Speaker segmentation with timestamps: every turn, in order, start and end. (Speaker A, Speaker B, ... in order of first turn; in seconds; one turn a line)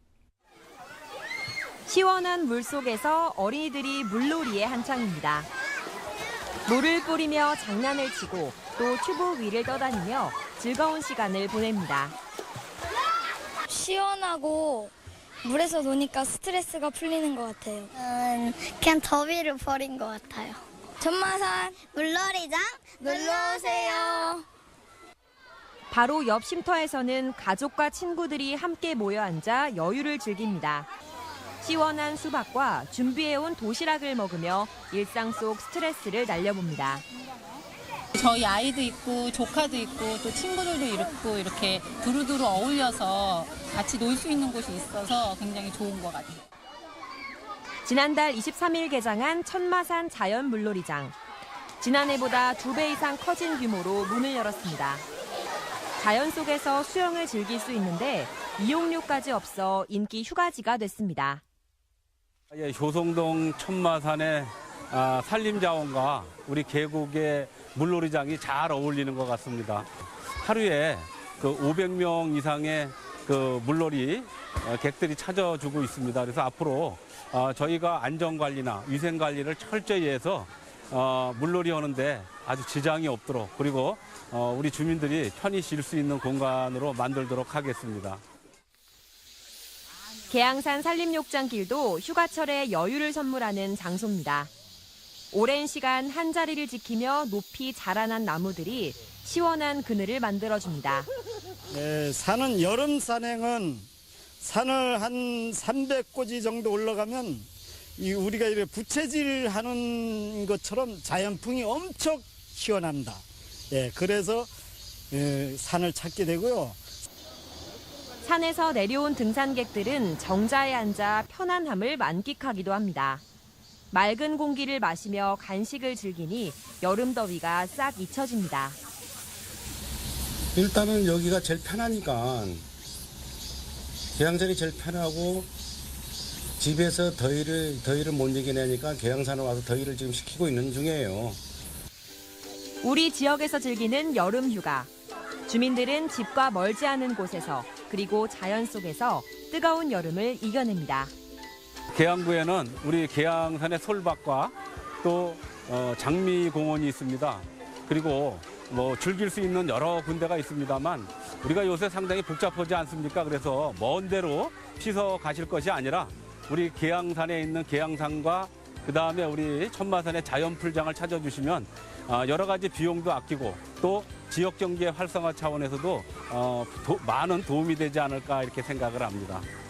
Speaker A: 1.9-5.5
Speaker A: 6.7-12.1
Speaker B: 13.7-14.9
Speaker B: 15.4-17.9
Speaker C: 17.9-20.6
Speaker B: 21.0-21.9
Speaker C: 21.8-24.3
Speaker B: 23.0-24.4
Speaker A: 25.9-30.9
Speaker A: 31.6-37.0
Speaker D: 38.1-46.4
Speaker A: 47.8-51.1
Speaker A: 51.8-55.0
Speaker A: 56.0-61.4
Speaker E: 62.5-88.2
Speaker A: 90.3-94.5
Speaker A: 95.3-101.1
Speaker F: 101.7-103.8
Speaker F: 104.4-114.5
Speaker F: 115.1-116.8
Speaker A: 118.2-123.2
Speaker A: 123.9-128.8
Speaker G: 130.6-132.7
Speaker G: 134.2-135.5
Speaker G: 136.6-141.4
Speaker A: 142.8-144.9
Speaker A: 145.5-151.1
Speaker E: 151.9-179.5